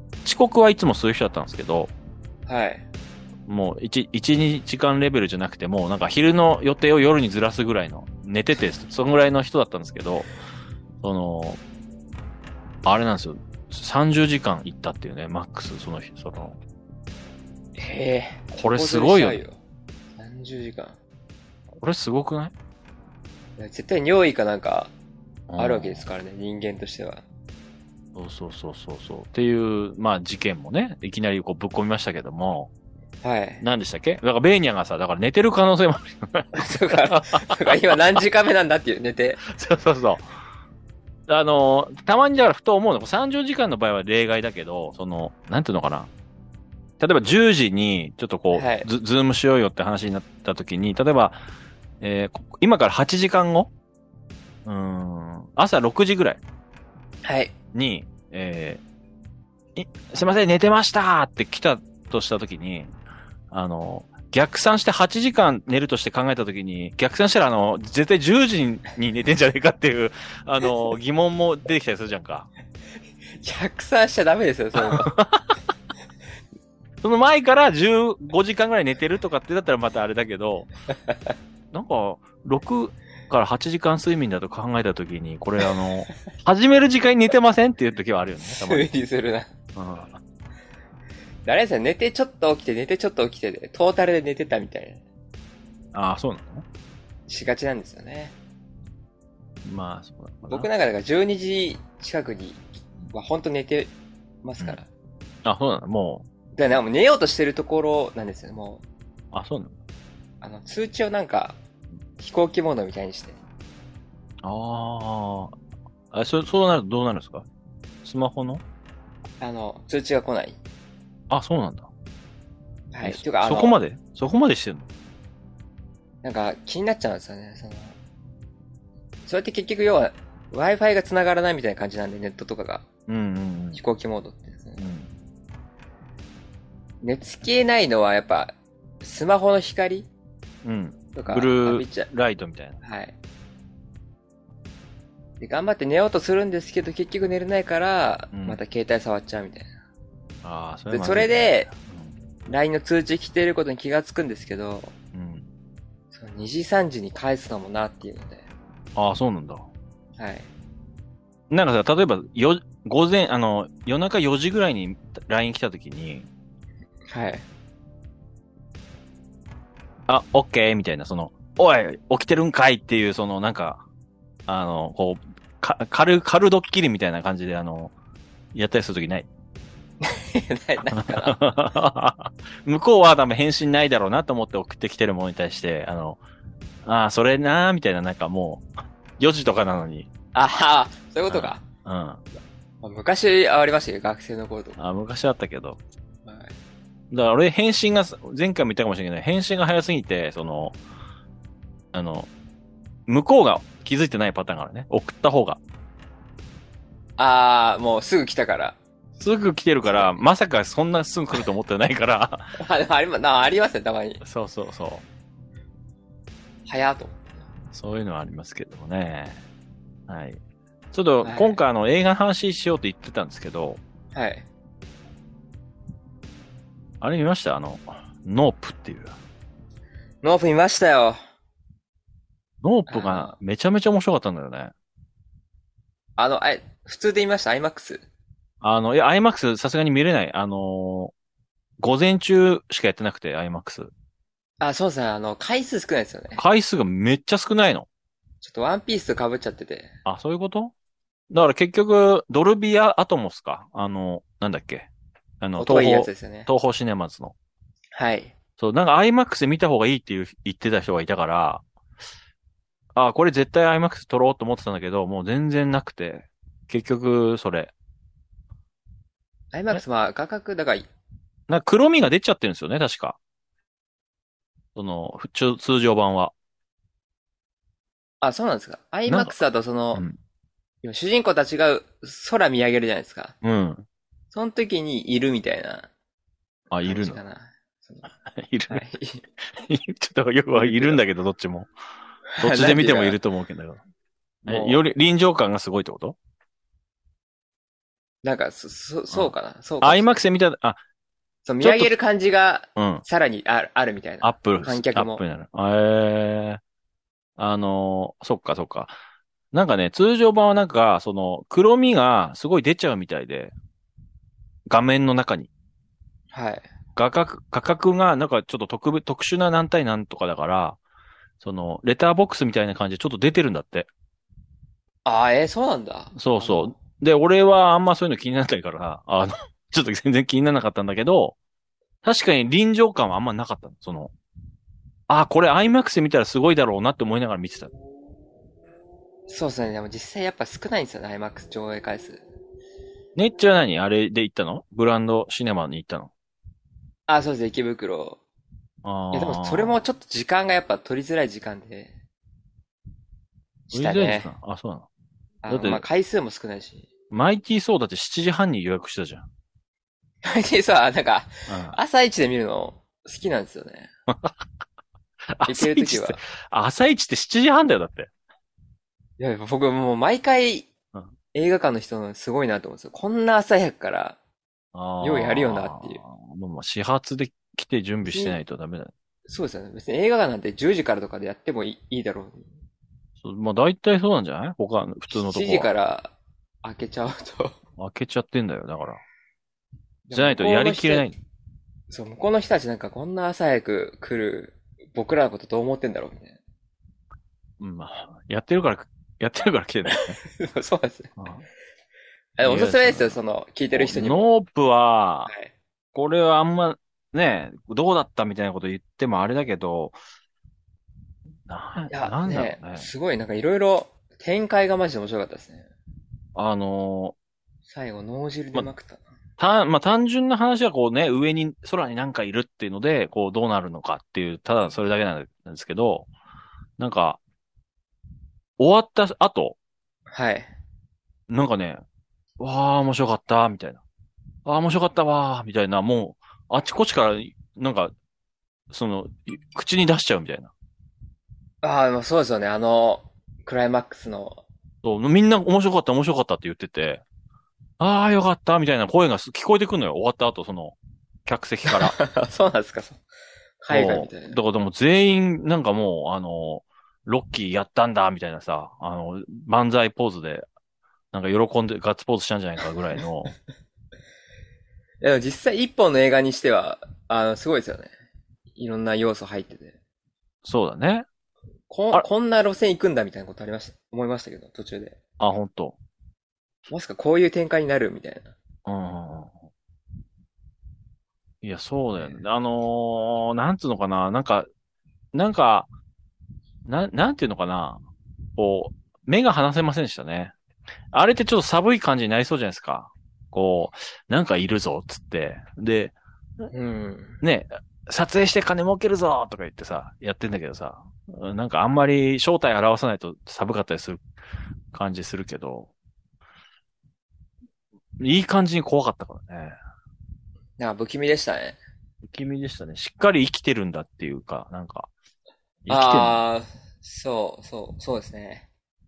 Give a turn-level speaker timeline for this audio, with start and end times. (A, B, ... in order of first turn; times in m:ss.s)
0:00.2-0:01.9 A
0:02.5-0:02.8 B
0:03.5-0:10.3 A
0:11.0-0:11.6 A
0:12.8-0:16.6 A
0:17.8-0:19.6 B
0:18.5-0:19.4 A
0:20.2-0:21.0 B
0:21.8-0:22.5 A
0:23.6-0:24.9 B
0:25.5-0:26.1 A
0:25.6-0:27.2 B
0:28.1-0:32.7 A
0:33.2-0:33.6 B
0:33.6-0:37.9 A
0:36.5-0:39.4 B
0:39.4-0:40.3 A
0:41.3-0:46.1 A
0:47.0-0:51.4 A
0:48.5-0:48.9 B
0:52.0-0:53.7 A
0:54.6-0:56.4 A
0:57.2-0:57.5 B
0:57.7-0:58.8 A
0:59.8-1:02.9 A
1:03.5-1:12.5 A
1:13.4-1:15.2 B
1:14.8-1:15.4 A
1:17.0-1:20.7 A
1:21.7-1:28.9 A
1:28.4-1:29.5 B
1:29.7-1:30.2 A
1:31.4-1:35.0 B
1:35.9-1:36.6 A
1:37.3-1:38.3 B
1:39.6-1:40.7 A
1:40.5-1:43.9 B
1:44.4-1:44.8 B
1:45.4-1:46.2 A
1:46.5-1:48.8 B
1:49.3-1:49.7 A
1:50.4-1:51.6 B
1:52.2-1:53.4 B
1:54.4-1:55.5 A
1:56.1-1:57.4 A
1:58.0-1:58.6 A
1:59.4-2:00.6 B
2:01.3-2:01.9 A
2:02.9-2:03.8 B
2:03.0-2:04.9 A
2:06.2-2:08.0 B
2:09.2-2:12.9 B
2:13.1-2:13.8 A
2:13.7-2:14.8 B
2:14.8-2:15.1 A
2:17.0-2:20.1 B
2:20.6-2:22.8 A
2:21.1-2:22.1 B
2:22.8-2:23.1 B
2:25.4-2:29.7 B
2:28.3-2:28.6 A
2:30.4-2:32.1 A
2:30.9-2:31.7 B
2:32.5-2:34.9 B
2:35.1-2:35.5 A
2:36.1-2:38.4 B
2:39.0-2:39.6 A
2:40.2-2:40.5 B
2:41.5-2:46.3 A
2:47.1-2:47.4 B
2:50.1-2:53.8 A
2:54.5-2:57.9 A
2:58.5-2:59.3 A
3:00.0-3:01.4 B
3:00.9-3:06.2 A
3:06.8-3:08.7 A
3:09.2-3:10.1 A
3:10.3-3:11.6 B
3:11.3-3:12.2 A
3:12.8-3:14.8 B
3:14.8-3:15.8 A
3:16.2-3:16.5 B
3:17.1-3:20.8 A
3:21.9-3:22.3 A
3:23.1-3:25.6 A
3:27.2-3:28.8 B
3:29.2-3:32.6 A
3:29.8-3:30.1 B
3:32.6-3:34.2 B
3:34.2-3:35.0 A
3:36.7-3:37.3 B
3:37.7-3:39.4 A
3:40.1-3:40.4 A
3:40.9-3:43.8 A
3:41.2-3:41.6 B
3:44.1-3:44.4 B
3:47.0-3:49.1 A
3:50.2-3:51.2 B
3:52.6-3:54.7 A
3:52.9-3:53.4 B
3:56.2-3:58.0 B
3:58.6-4:01.1 A
4:01.8-4:03.9 A
4:04.6-4:06.4 B
4:06.4-4:07.9 A
4:08.4-4:09.9 B
4:10.0-4:10.7 A
4:11.3-4:14.9 A
4:15.4-4:17.3 A
4:15.6-4:16.5 B
4:17.9-4:18.3 B
4:18.6-4:21.6 A
4:22.9-4:27.7 A
4:29.5-4:30.9 B
4:31.5-4:33.2 A
4:34.8-4:36.3 A
4:38.2-4:40.0 B
4:39.1-4:39.4 A
4:40.8-4:43.3 B
4:43.4-4:43.8 A
4:44.3-4:45.9 B
4:46.7-4:47.2 A
4:46.8-4:48.1 B
4:48.4-4:48.8 A
4:48.7-4:49.2 B
4:49.5-4:51.7 A
4:50.5-4:51.0 B
4:52.3-4:53.2 B
4:52.4-4:53.8 A
4:54.4-4:54.8 B
4:54.4-4:56.2 A
4:58.2-5:00.1 B
4:59.1-5:00.8 A
5:01.4-5:05.2 B
5:01.6-5:01.9 A
5:02.8-5:03.0 A
5:04.2-5:06.6 A
5:07.4-5:08.9 A
5:09.5-5:13.5 A
5:14.7-5:15.5 A
5:16.3-5:16.6 B
5:17.0-5:20.8 A
5:21.4-5:23.9 A
5:25.0-5:26.8 B
5:26.1-5:31.4 A
5:32.0-5:34.1 A
5:35.1-5:37.7 A
5:39.3-5:42.2 B
5:43.2-5:46.1 A
5:47.1-5:48.2 B
5:48.8-5:49.8 A
5:49.1-5:51.9 B
5:53.7-5:54.3 B
5:53.7-5:54.8 A
5:55.4-5:56.9 B
5:55.5-5:55.8 A
5:57.1-5:59.3 A
6:00.2-6:03.9 B
6:01.5-6:01.8 A
6:04.1-6:04.4 A
6:05.3-6:08.1 A
6:05.5-6:06.2 B
6:09.2-6:10.7 B
6:11.3-6:14.2 B
6:14.7-6:18.9 A
6:15.0-6:16.0 B
6:18.0-6:18.4 B
6:19.3-6:22.5 B
6:23.2-6:25.7 A
6:25.1-6:27.6 B
6:27.8-6:29.0 A
6:30.1-6:31.1 B
6:30.1-6:31.2 A
6:31.9-6:36.4 B
6:37.6-6:40.2 A
6:39.9-6:41.1 B
6:41.2-6:41.4 A
6:42.4-6:44.2 B
6:42.4-6:43.2 A
6:43.7-6:45.3 A
6:45.3-6:45.5 B
6:45.9-6:50.0 A
6:51.5-6:52.9 A
6:51.9-6:55.7 B
6:56.3-6:57.1 A
6:57.7-6:59.0 B
6:59.4-7:06.1 A
7:06.8-7:07.2 A
7:08.6-7:09.6 A
7:10.1-7:10.5 B
7:11.3-7:11.8 A
7:12.4-7:13.8 A
7:14.4-7:17.9 A
7:18.7-7:20.5 A
7:21.6-7:24.4 B
7:24.8-7:27.0 A
7:27.8-7:32.0 A
7:31.7-7:33.0 B
7:33.6-7:34.4 B
7:33.7-7:40.4 A
7:41.1-7:43.3 A
7:45.0-7:47.9 B
7:48.6-7:49.8 B
7:50.4-7:51.0 A
7:51.7-7:55.0 B
7:55.2-7:55.8 A
7:56.7-7:58.3 B
7:58.6-7:59.3 A
8:01.4-8:04.5 A
8:02.0-8:02.2 B
8:05.1-8:05.7 A
8:06.6-8:07.8 A
8:08.4-8:10.3 A
8:10.9-8:16.5 A
8:16.5-8:17.2 B
8:17.2-8:24.0 A
8:24.7-8:25.7 A
8:28.0-8:29.6 A
8:30.6-8:31.6 B
8:32.0-8:34.9 A
8:35.6-8:36.2 A
8:35.7-8:38.4 B